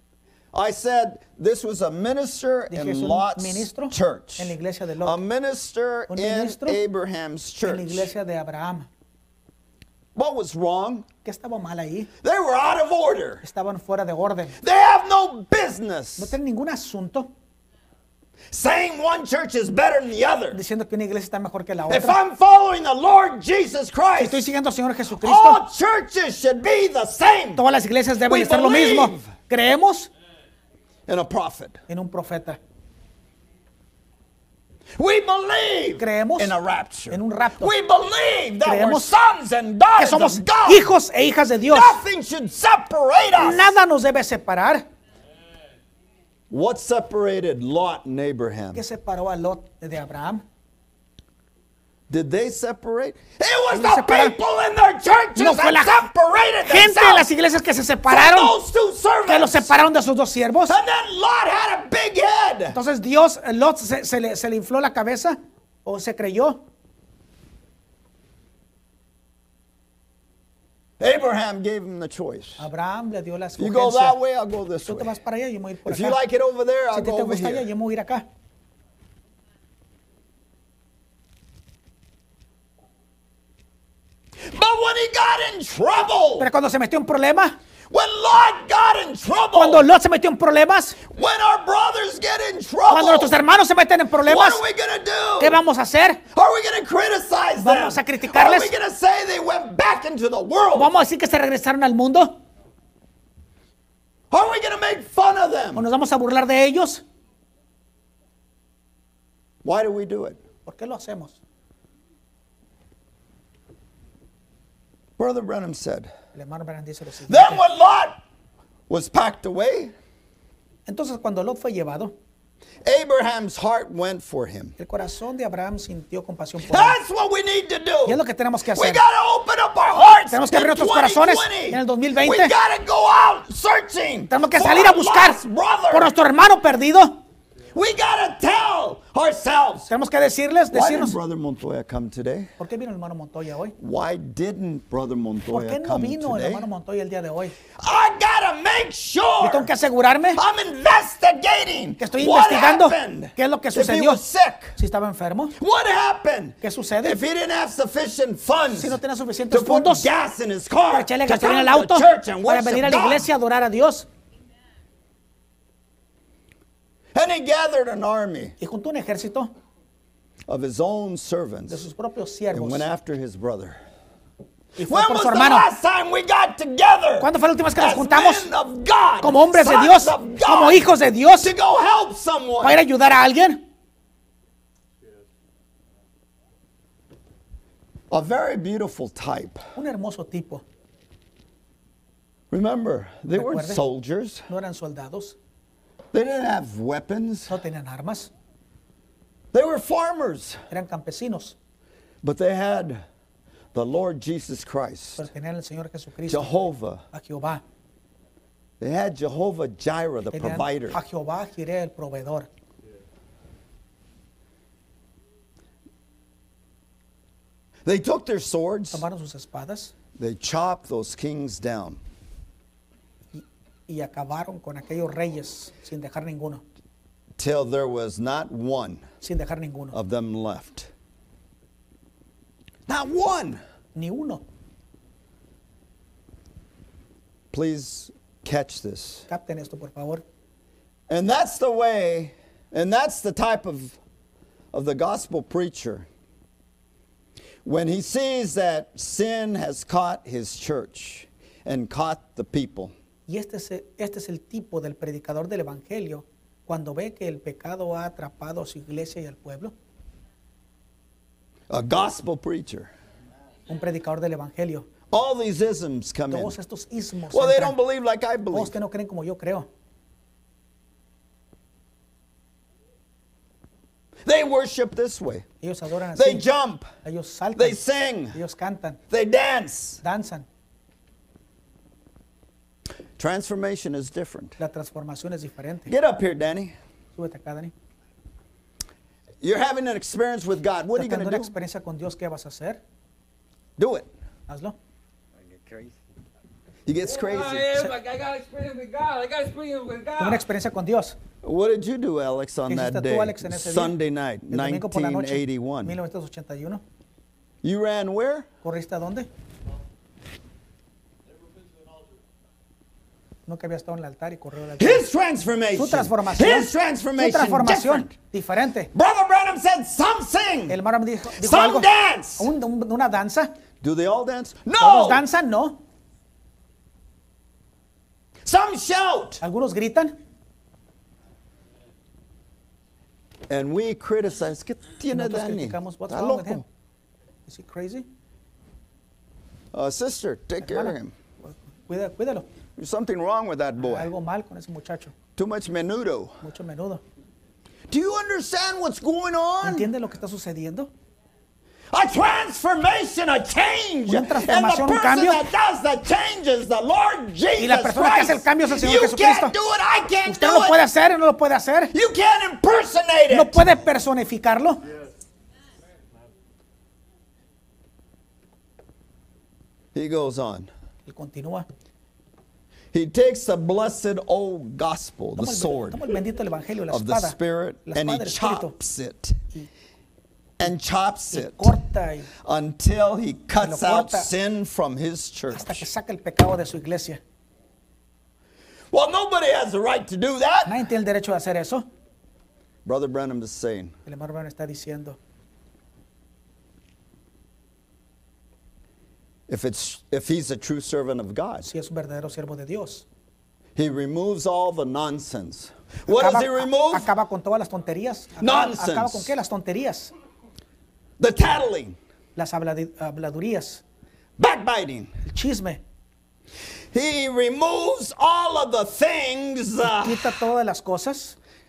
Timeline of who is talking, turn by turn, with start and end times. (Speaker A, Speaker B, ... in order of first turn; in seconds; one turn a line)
Speaker A: 0.5-8.1
Speaker B: 2.7-5.2
Speaker B: 6.1-6.8
Speaker B: 7.6-8.9
Speaker A: 10.1-11.1
Speaker B: 11.2-12.1
Speaker A: 12.2-13.4
Speaker B: 13.4-14.6
Speaker A: 14.6-16.4
Speaker B: 16.2-17.3
Speaker A: 18.5-20.6
Speaker B: 20.5-22.2
Speaker A: 21.9-24.4
Speaker B: 24.2-25.6
Speaker A: 25.1-27.6
Speaker B: 27.6-30.1
Speaker A: 28.2-29.3
Speaker A: 31.1-31.8
Speaker B: 31.9-32.6
Speaker A: 35.0-40.9
Speaker B: 36.0-36.5
Speaker B: 37.1-37.7
Speaker B: 38.6-39.1
Speaker B: 40.0-42.0
Speaker A: 41.7-43.7
Speaker B: 43.4-44.9
Speaker A: 46.5-48.8
Speaker B: 48.7-50.4
Speaker A: 52.1-57.3
Speaker B: 53.7-54.4
Speaker B: 55.4-56.0
Speaker B: 56.6-58.5
Speaker A: 58.1-59.9
Speaker B: 59.3-60.8
Speaker A: 60.7-62.8
Speaker B: 62.7-66.6
Speaker A: 71.0-72.6
Speaker B: 72.6-74.2
Speaker A: 73.6-75.1
Speaker B: 74.8-76.2
Speaker A: 75.8-77.7
Speaker B: 76.9-78.3
Speaker A: 84.4-86.5
Speaker B: 86.4-87.6
Speaker A: 87.9-89.8
Speaker B: 89.5-91.0
Speaker A: 91.0-93.4
Speaker B: 92.9-94.6
Speaker A: 94.2-95.6
Speaker B: 95.4-96.2
Speaker A: 96.3-101.0
Speaker B: 97.6-98.7
Speaker B: 100.7-102.4
Speaker A: 104.3-105.8
Speaker B: 105.7-107.0
Speaker A: 109.6-110.4
Speaker B: 110.7-111.4
Speaker A: 115.2-116.1
Speaker B: 116.3-117.6
Speaker A: 117.3-118.2
Speaker A: 118.9-119.9
Speaker B: 120.9-122.1
Speaker A: 122.8-124.7
Speaker B: 124.8-127.0
Speaker A: 126.6-136.1
Speaker B: 128.1-129.0
Speaker B: 129.9-132.5
Speaker B: 134.3-135.4
Speaker B: 135.9-137.2
Speaker A: 137.7-139.9
Speaker B: 139.9-141.2
Speaker A: 140.7-142.5
Speaker B: 142.6-143.8
Speaker A: 143.8-146.7
Speaker B: 145.5-147.6
Speaker A: 147.8-149.7
Speaker B: 149.4-150.4
Speaker A: 150.3-154.8
Speaker B: 152.0-154.2
Speaker B: 154.8-155.5
Speaker A: 155.6-159.0
Speaker B: 156.6-157.2
Speaker B: 158.7-160.1
Speaker A: 159.5-163.3
Speaker B: 160.9-164.1
Speaker A: 167.1-168.5
Speaker B: 168.6-169.5
Speaker A: 170.5-171.8
Speaker B: 171.7-172.9
Speaker A: 172.5-173.8
Speaker B: 174.8-175.7
Speaker A: 174.8-182.8
Speaker B: 177.2-178.5
Speaker B: 179.2-181.5
Speaker B: 182.6-183.6
Speaker A: 188.1-189.6
Speaker B: 189.7-190.6
Speaker A: 192.5-194.4
Speaker B: 193.3-193.8
Speaker B: 194.5-195.3
Speaker A: 196.1-197.6
Speaker B: 197.5-198.3
Speaker A: 199.5-200.6
Speaker B: 200.7-201.6
Speaker A: 202.2-203.0
Speaker A: 203.7-205.3
Speaker B: 205.2-206.5
Speaker A: 206.3-207.0
Speaker B: 207.1-207.6
Speaker A: 208.8-211.0
Speaker B: 210.3-212.5
Speaker A: 217.8-219.0
Speaker B: 218.9-219.9
Speaker A: 220.2-222.0
Speaker B: 223.3-226.6
Speaker A: 227.4-229.0
Speaker B: 229.2-230.0
Speaker A: 229.9-230.9
Speaker A: 232.9-233.6
Speaker B: 233.9-234.4
Speaker A: 237.5-239.2
Speaker B: 239.3-240.2
Speaker A: 241.1-244.0
Speaker A: 244.7-246.1
Speaker A: 247.6-252.9
Speaker B: 253.3-259.7
Speaker A: 261.7-262.9
Speaker B: 263.7-264.9
Speaker A: 265.1-266.5
Speaker B: 266.3-267.8
Speaker A: 267.3-268.7
Speaker B: 268.5-269.7
Speaker A: 274.2-275.4
Speaker B: 275.6-276.4
Speaker A: 276.1-276.9
Speaker B: 277.0-279.0
Speaker A: 277.6-278.4
Speaker A: 279.1-280.0
Speaker B: 280.0-280.4
Speaker A: 283.2-284.6
Speaker B: 284.6-285.9
Speaker A: 285.9-286.7
Speaker B: 287.1-287.7
Speaker A: 289.4-291.5
Speaker B: 290.9-292.8
Speaker A: 293.8-294.1
Speaker B: 294.5-294.8
Speaker A: 295.5-295.9
Speaker A: 296.9-297.8
Speaker C: 297.0-300.4
Speaker B: 300.2-301.2
Speaker A: 301.4-306.0
Speaker B: 302.7-303.9
Speaker B: 304.5-306.8
Speaker A: 307.6-308.5
Speaker B: 308.6-309.3
Speaker B: 313.5-315.1
Speaker A: 314.8-318.1
Speaker B: 315.7-318.9
Speaker A: 318.9-320.8
Speaker B: 320.7-323.5
Speaker A: 321.4-322.5
Speaker A: 323.8-325.2
Speaker B: 324.8-325.8
Speaker A: 328.4-329.4
Speaker B: 329.4-330.1
Speaker A: 333.5-336.6
Speaker B: 335.1-336.6
Speaker B: 337.5-338.1
Speaker A: 339.7-341.1
Speaker B: 340.6-342.5
Speaker A: 342.8-344.1
Speaker B: 343.8-345.1
Speaker A: 345.4-346.3
Speaker B: 346.4-347.0
Speaker A: 347.9-349.9
Speaker B: 349.6-350.9
Speaker A: 351.9-360.8
Speaker B: 354.1-355.4
Speaker B: 357.6-359.5
Speaker B: 360.2-361.9
Speaker A: 361.9-363.7
Speaker B: 363.3-364.8
Speaker A: 369.9-370.7
Speaker B: 371.1-371.6
Speaker A: 372.9-376.0
Speaker B: 375.4-378.7
Speaker A: 376.9-379.4
Speaker A: 380.6-381.7
Speaker B: 381.3-382.3
Speaker A: 382.4-385.9
Speaker B: 383.6-384.3
Speaker B: 385.5-387.2
Speaker A: 388.9-390.8
Speaker B: 390.6-391.9
Speaker A: 392.8-393.9
Speaker B: 394.1-395.2
Speaker A: 399.5-401.7
Speaker B: 401.6-403.1
Speaker A: 403.8-407.1
Speaker B: 406.1-410.1
Speaker A: 408.4-409.3
Speaker A: 411.2-412.0
Speaker B: 412.4-413.8
Speaker A: 414.4-415.1
Speaker B: 415.2-415.8
Speaker A: 416.9-420.3
Speaker B: 419.8-421.4